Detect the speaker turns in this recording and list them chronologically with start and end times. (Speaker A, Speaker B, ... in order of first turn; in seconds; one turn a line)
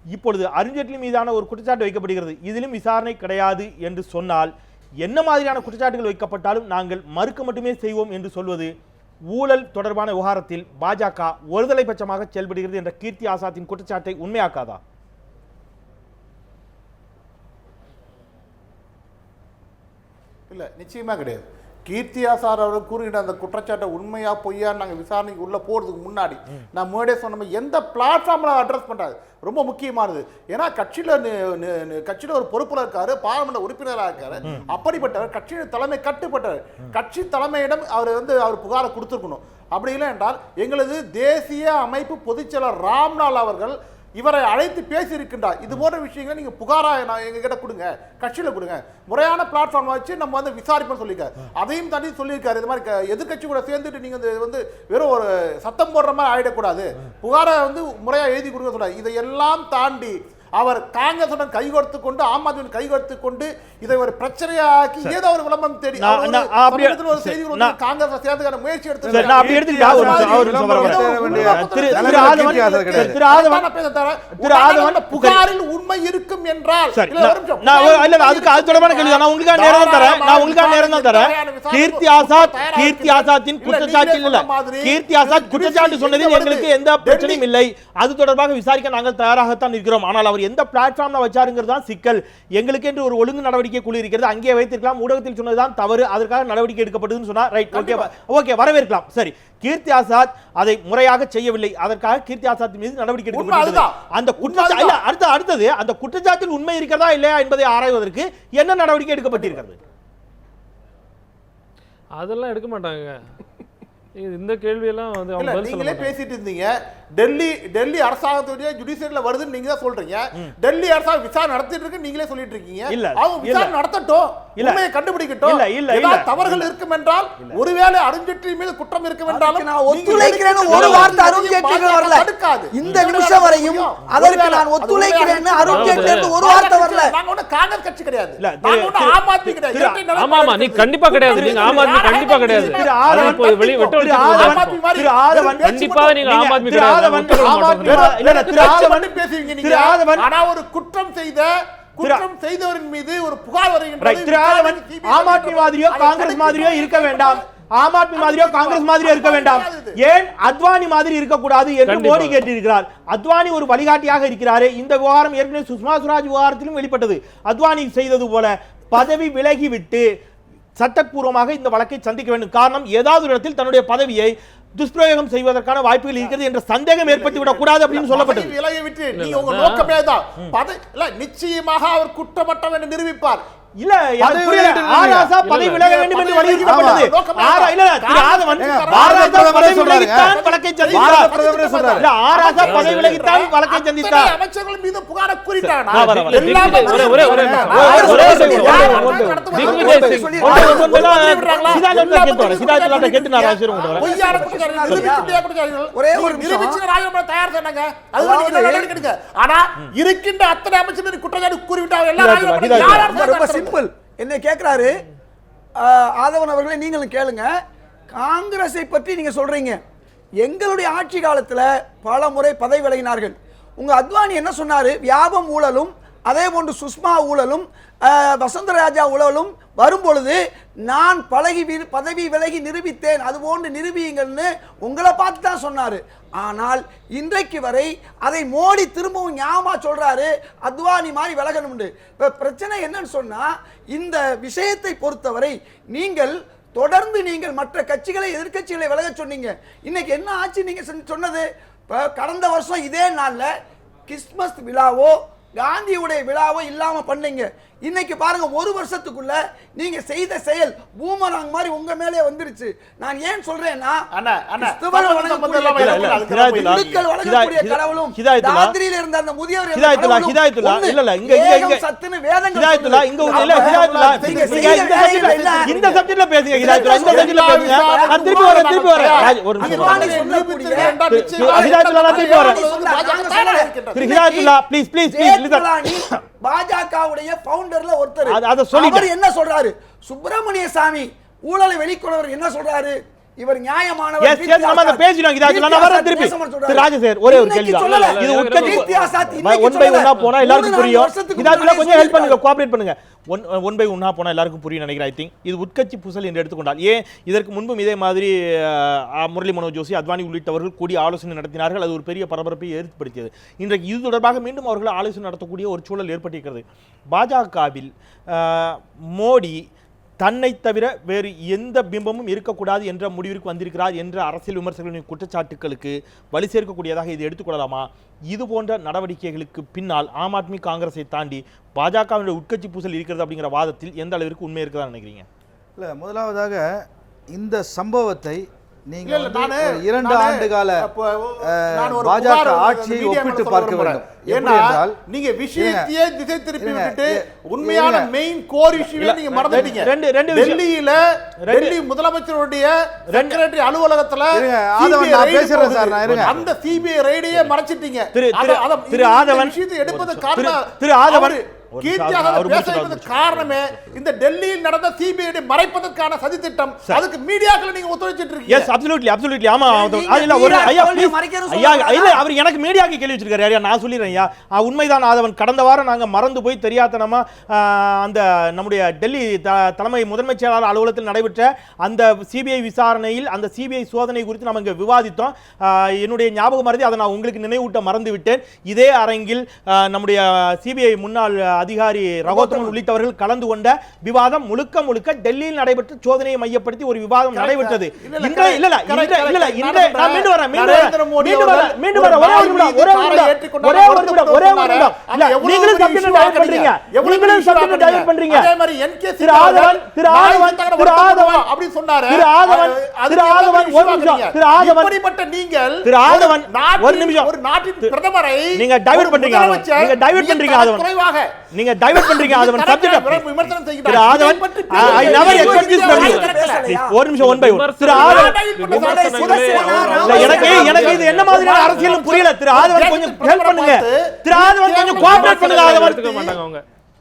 Speaker A: 0.1-4.5
Speaker A: 5.0-8.7
Speaker A: 9.3-14.8
Speaker B: 20.5-87.4
Speaker A: 66.0-67.8
Speaker C: 69.0-73.2
Speaker A: 69.1-73.7
Speaker A: 74.4-75.4
Speaker A: 76.9-109.8
Speaker B: 97.7-98.1
Speaker B: 103.3-105.0
Speaker D: 112.2-113.2
Speaker D: 114.2-116.2
Speaker B: 115.4-143.4
Speaker A: 122.9-123.7
Speaker A: 124.6-124.8
Speaker A: 125.4-126.7
Speaker E: 129.3-137.1
Speaker D: 130.7-131.1
Speaker D: 135.7-136.4
Speaker A: 138.4-140.0
Speaker D: 140.2-144.8
Speaker A: 141.3-141.7
Speaker A: 142.4-150.3
Speaker B: 144.1-146.2
Speaker D: 145.6-148.8
Speaker B: 147.3-157.4
Speaker A: 154.0-170.1
Speaker B: 158.1-160.0
Speaker D: 161.9-162.4
Speaker A: 170.8-178.5
Speaker B: 177.0-183.4
Speaker D: 179.1-179.9
Speaker A: 183.8-191.3
Speaker C: 184.2-185.3
Speaker D: 184.7-185.9
Speaker B: 185.7-213.8
Speaker C: 186.6-187.1
Speaker C: 188.6-190.4
Speaker C: 190.9-192.1
Speaker A: 191.9-194.3
Speaker D: 192.6-193.2
Speaker A: 195.6-205.2
Speaker D: 195.9-200.7
Speaker C: 196.7-197.8
Speaker E: 197.8-203.0
Speaker E: 203.7-205.3
Speaker E: 205.9-206.8
Speaker E: 208.2-208.9
Speaker A: 212.2-213.2
Speaker E: 212.7-215.0
Speaker E: 215.8-217.5
Speaker E: 218.1-219.8
Speaker E: 220.4-253.5
Speaker E: 254.1-264.1
Speaker B: 264.1-267.0
Speaker E: 264.6-275.7
Speaker A: 265.8-268.7
Speaker A: 269.7-271.8
Speaker A: 272.5-282.6
Speaker B: 273.2-284.1
Speaker E: 276.5-278.2
Speaker E: 279.4-284.6
Speaker A: 283.9-286.2
Speaker E: 285.1-302.4
Speaker A: 288.3-289.1
Speaker A: 294.2-319.6
Speaker D: 297.8-299.3
Speaker A: 320.2-335.2
Speaker C: 335.8-345.0
Speaker B: 339.0-368.7
Speaker C: 345.5-345.9
Speaker C: 346.6-348.1
Speaker A: 348.9-350.6
Speaker A: 351.4-351.8
Speaker A: 353.1-353.4
Speaker C: 354.3-356.4
Speaker A: 356.1-356.5
Speaker A: 358.1-364.0
Speaker A: 368.5-408.5
Speaker E: 369.7-372.2
Speaker B: 392.2-392.8
Speaker B: 397.3-421.3
Speaker A: 409.2-411.5
Speaker A: 412.1-414.9
Speaker A: 415.8-417.9
Speaker A: 418.5-420.9
Speaker A: 421.5-428.3
Speaker B: 421.9-426.6
Speaker E: 424.5-427.0
Speaker D: 425.9-426.4
Speaker D: 427.2-432.0
Speaker B: 427.8-436.4
Speaker E: 428.0-431.0
Speaker A: 430.0-436.4
Speaker D: 434.9-436.6